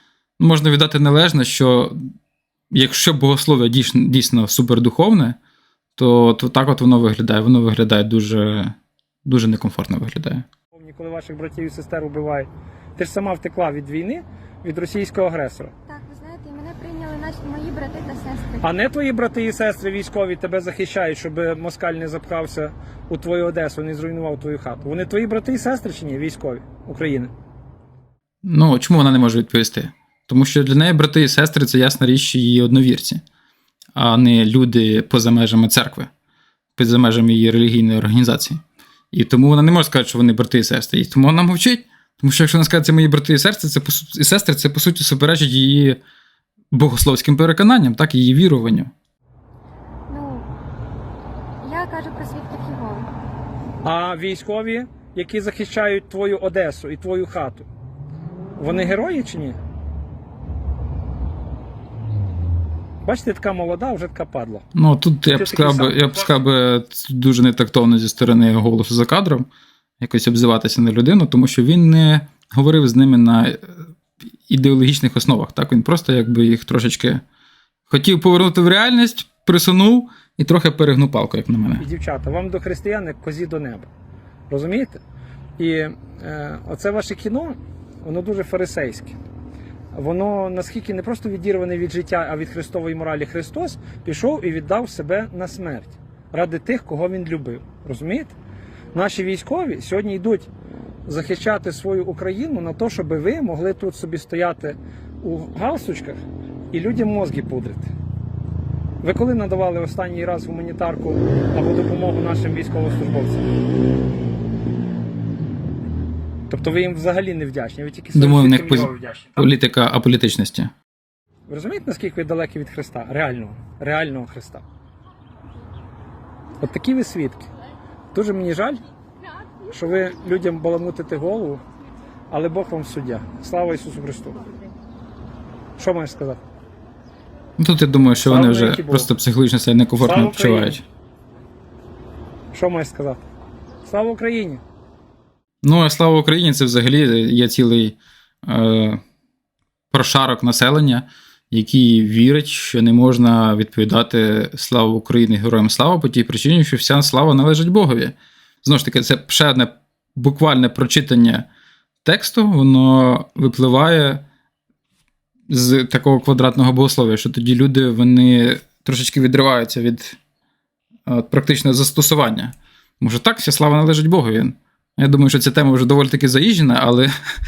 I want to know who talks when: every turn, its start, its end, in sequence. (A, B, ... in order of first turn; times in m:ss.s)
0:00.4-0:02.0 A
0:02.7-0:05.4 A
0:06.0-0:08.7 A
0:09.2-0:10.4 A
0:10.7-0:15.7 B
0:15.9-0:18.6 C
0:18.6-0:27.3 B
0:28.4-0:33.2 A
0:34.0-0:36.1 A
0:36.8-0:46.0 A
0:46.7-0:48.9 A
0:50.1-0:50.5 C
0:51.6-0:53.1 C
0:53.8-0:57.7 B
0:58.6-0:59.6 B
1:03.0-1:04.6 B
1:04.7-1:09.5 A
1:05.3-1:06.0 B
1:10.0-1:13.7 A
1:14.5-1:17.2 A
1:17.9-1:21.8 A
1:21.8-1:23.9 B
1:24.5-1:25.0 B
1:25.6-1:29.2 B
1:29.9-1:38.3 B
1:38.9-1:40.5 B
1:41.0-1:46.2 B
1:46.7-1:47.9 B
1:49.0-1:53.5 B
1:56.5-1:59.4 B
1:58.1-2:00.7 A
2:01.5-2:04.6 B
2:06.6-2:07.5 B
2:08.1-2:08.8 B
2:09.7-2:11.6 B
2:12.3-2:14.4 B
2:15.8-2:16.4 B
2:17.6-2:20.8 A
2:18.2-2:19.1 B
2:20.0-2:20.8 B
2:22.5-2:23.2 B
2:23.8-2:24.6 B
2:25.6-2:29.0 A
2:29.9-2:41.4 A
2:42.0-2:44.2 A
2:45.5-2:50.2 A
2:51.1-2:57.1 A